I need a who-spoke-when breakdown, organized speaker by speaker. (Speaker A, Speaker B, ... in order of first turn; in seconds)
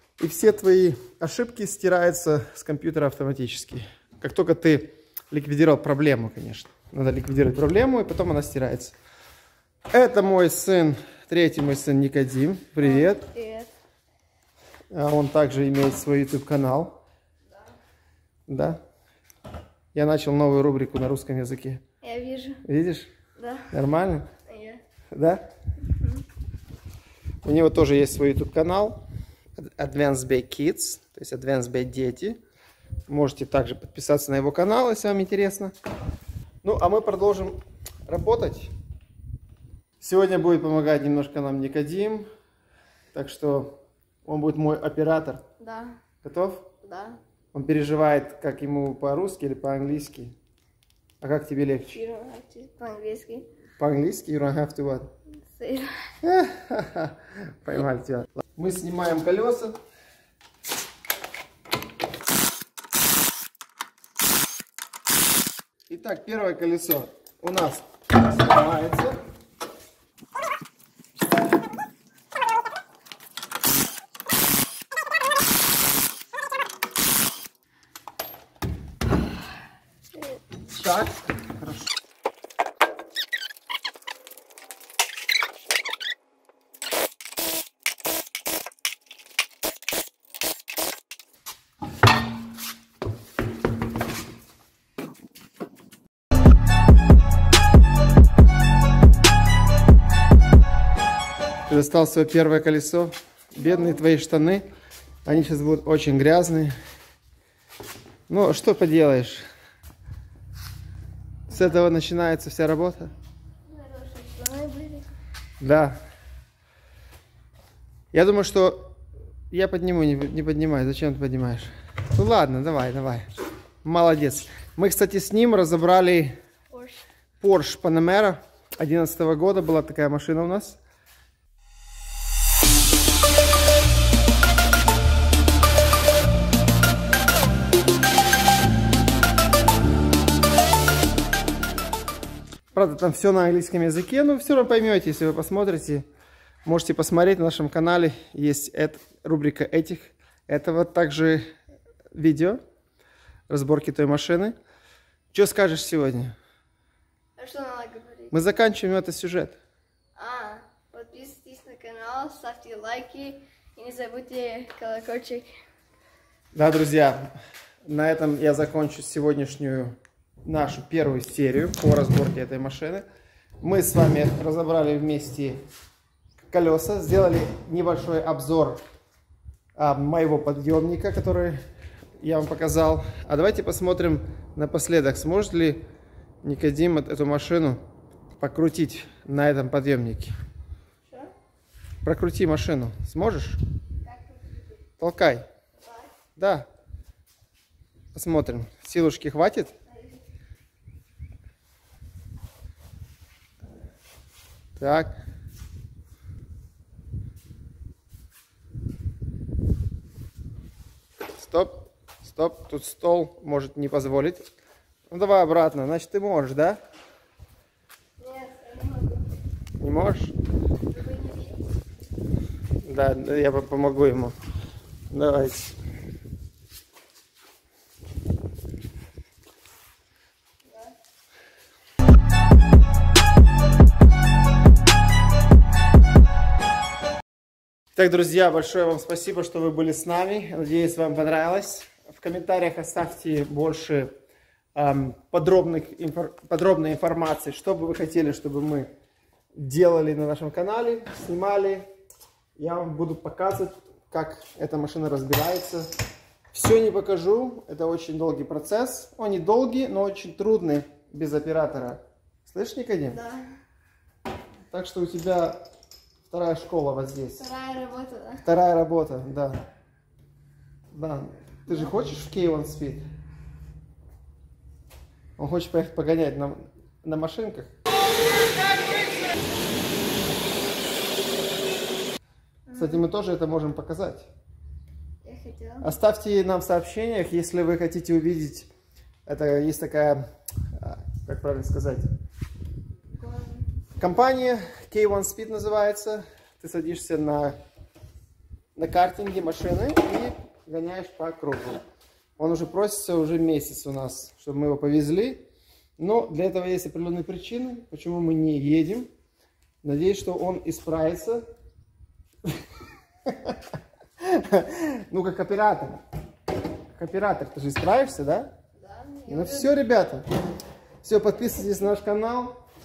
Speaker A: 0.2-8.9, 9.9-13.2, 14.9-17.0, 18.5-18.8, 19.9-21.8, 22.6-23.1, 23.7-24.3, 25.1-25.4, 27.4-29.0, 29.6-32.4, 33.1-35.7, 36.6-38.7, 40.0-42.3, 43.1-45.4, 46.2-46.7, 47.5-50.3, 51.2-52.0, 53.8-55.1, 56.2-59.8, 65.9-69.2, 80.7-81.9, 101.7-104.7, 105.2-106.7, 108.3-109.4, 111.5-113.1, 115.6-116.0, 118.1-118.9, 119.5-123.3, 123.8-126.3, 127.4-130.8, 142.7-146.1, 146.6-151.4, 152.1-152.6, 153.5-154.5, 155.3-156.3, 158.3-159.6, 166.5-167.3, 167.8-173.0, 173.6-175.6, 176.5-178.8, 179.8-181.6, 182.2-185.8, 186.4-187.8, 188.4-190.3, 192.0-193.6, 195.0-195.4, 196.3-196.7, 198.1-199.7, 204.8-205.1, 211.3-214.4, 215.1-216.8, 219.8-220.3, 222.8-224.3, 225.1-225.7, 237.9-244.1, 244.7-248.9, 249.5-251.9, 252.6-255.9, 256.5-263.2, 264.7-265.6, 266.3-267.5, 268.4-269.6, 270.9-273.0, 275.4-277.7, 282.7-284.3, 285.8-288.7, 289.2-292.1, 294.0-297.6, 298.8-301.8, 302.4-305.4, 306.0-309.1, 309.8-311.4, 313.2-313.6, 314.2-316.0, 316.9-318.5, 319.3-320.2, 321.0-322.6
Speaker B: 12.8-13.7, 22.0-22.6, 23.4-23.7, 24.5-24.8, 45.6-46.0, 46.8-47.2, 51.9-53.5, 55.5-56.1, 103.6-104.0, 113.7-115.1, 126.7-127.0, 157.4-158.3, 160.2-165.5, 194.0-194.6, 195.8-196.1, 199.9-200.2, 218.2-219.3, 220.9-221.6, 263.1-263.5, 267.4-268.4, 282.7-283.0, 285.2-285.9, 293.1-293.6, 318.8-319.7